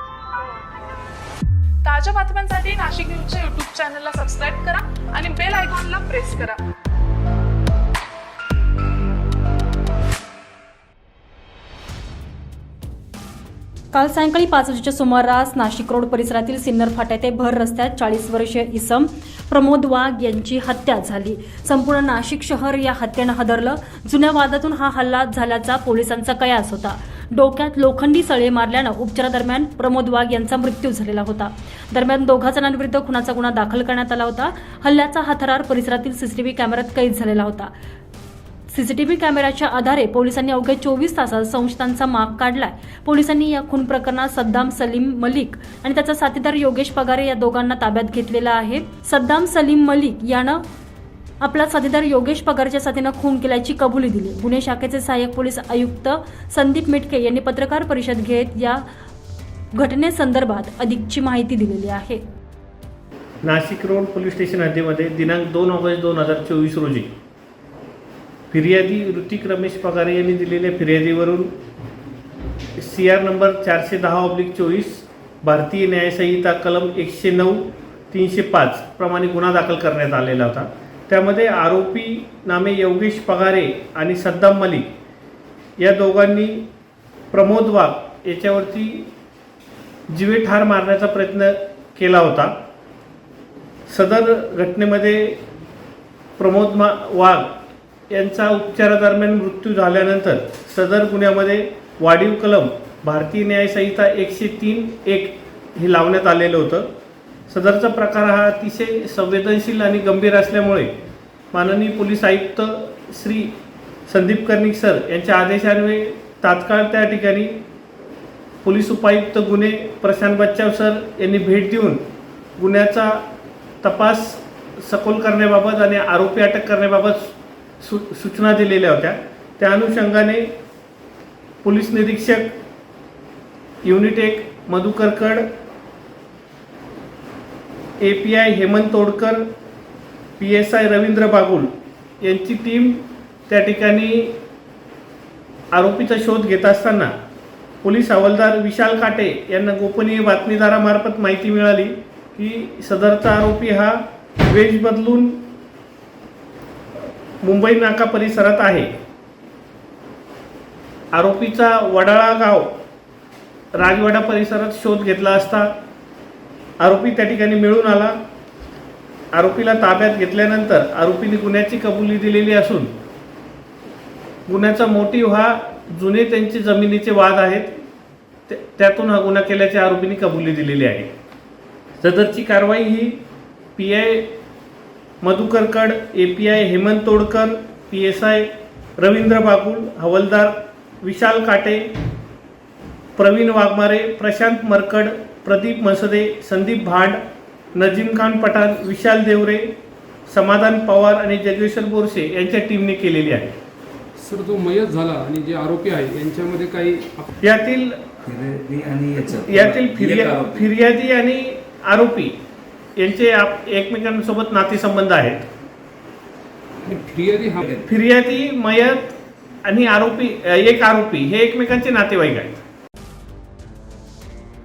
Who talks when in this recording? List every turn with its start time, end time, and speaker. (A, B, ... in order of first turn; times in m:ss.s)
0:01.8-0:06.6 A
0:13.9-0:37.7 B
0:38.7-0:50.6 B
0:51.4-0:58.8 B
0:59.7-1:02.2 B
1:03.4-1:07.1 C
1:08.5-1:11.5 C
1:12.8-1:24.9 C
1:25.8-1:26.6 C
1:27.3-1:29.1 C
1:30.1-1:32.6 C
1:33.9-1:35.4 C
1:36.4-1:37.5 C
1:38.1-1:46.9 C
1:47.5-1:50.9 C
1:51.5-1:53.5 C
1:54.1-1:57.5 C
1:58.6-2:02.0 C
2:02.6-2:03.2 C
2:03.8-2:10.5 C
2:11.6-2:12.5 C
2:13.8-2:15.4 C
2:18.0-2:19.4 C
2:20.4-2:24.4 C
2:25.7-2:27.1 C
2:27.8-2:35.4 C
2:37.4-2:38.9 C
2:41.1-2:42.8 C
2:43.8-2:45.7 C
2:46.8-2:48.2 C
2:49.3-2:52.9 C
2:54.5-2:57.8 C
2:58.5-3:01.1 C
3:02.0-3:03.2 C
3:03.8-3:04.3 C
3:05.2-3:11.9 C
3:13.2-3:17.2 C
3:17.8-3:19.7 C
3:20.3-3:23.5 C
3:24.2-3:27.3 D
3:27.4-3:28.0 C
3:28.2-3:30.7 E
3:29.4-3:32.3 C
3:33.0-3:35.4 C
3:36.8-3:37.6 D
3:37.6-3:37.8 E
3:37.8-3:42.6 C